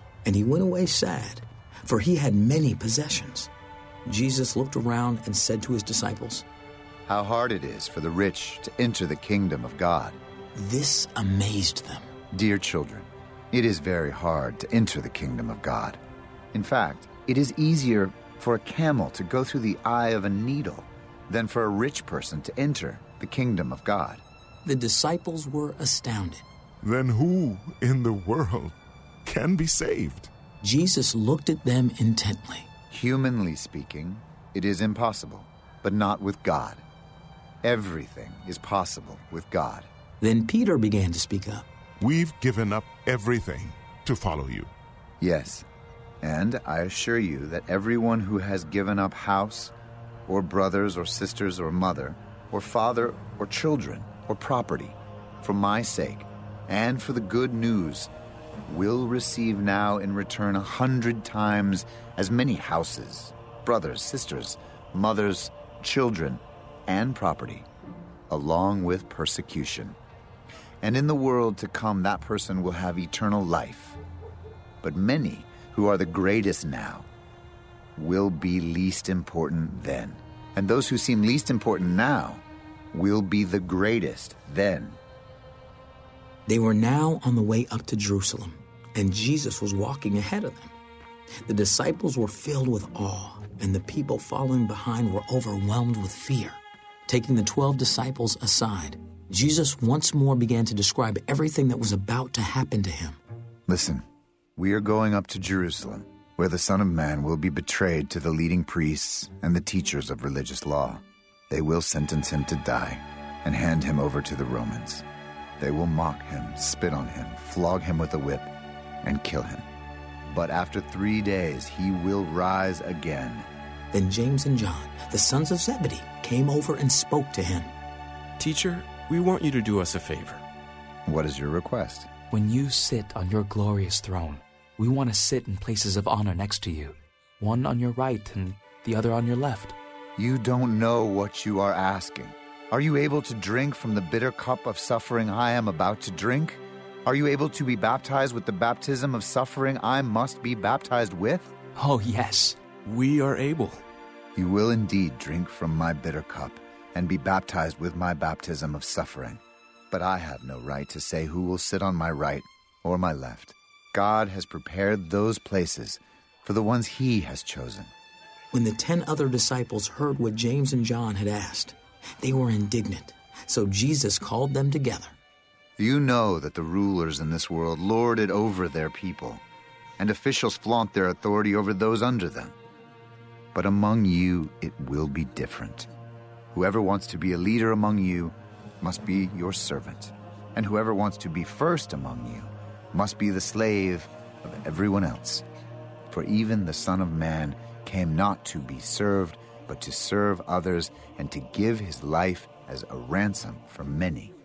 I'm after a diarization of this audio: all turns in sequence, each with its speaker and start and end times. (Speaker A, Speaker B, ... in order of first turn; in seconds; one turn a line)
Speaker A: 0.2-3.5
Speaker A: 4.0-6.5
Speaker B: 7.0-10.2
Speaker A: 10.5-12.1
Speaker B: 12.3-16.0
Speaker B: 16.5-24.2
Speaker A: 24.6-26.4
Speaker C: 26.8-30.3
Speaker A: 30.6-32.7
Speaker B: 32.9-36.8
Speaker B: 37.6-39.9
Speaker A: 40.2-41.7
Speaker C: 42.0-44.7
Speaker B: 45.2-45.6
Speaker B: 46.2-49.7
Speaker B: 50.2-58.1
Speaker B: 58.6-67.7
Speaker B: 68.3-70.0
Speaker B: 70.8-74.0
Speaker B: 74.8-77.1
Speaker B: 78.0-85.0
Speaker A: 86.5-90.7
Speaker A: 91.4-103.2
Speaker B: 103.7-104.0
Speaker B: 104.5-115.0
Speaker B: 115.6-118.5
Speaker B: 119.0-119.7
Speaker B: 120.2-123.5
Speaker A: 123.9-127.7
Speaker D: 128.4-130.4
Speaker B: 131.0-132.1
Speaker E: 132.3-139.8
Speaker B: 140.2-151.5
Speaker E: 151.7-153.6
Speaker D: 152.8-153.8
Speaker B: 154.3-167.9
Speaker A: 168.5-175.2
Speaker B: 175.8-179.4
Speaker B: 180.0-182.6
Speaker B: 183.5-185.9
Speaker B: 186.5-195.4
Speaker B: 196.1-204.3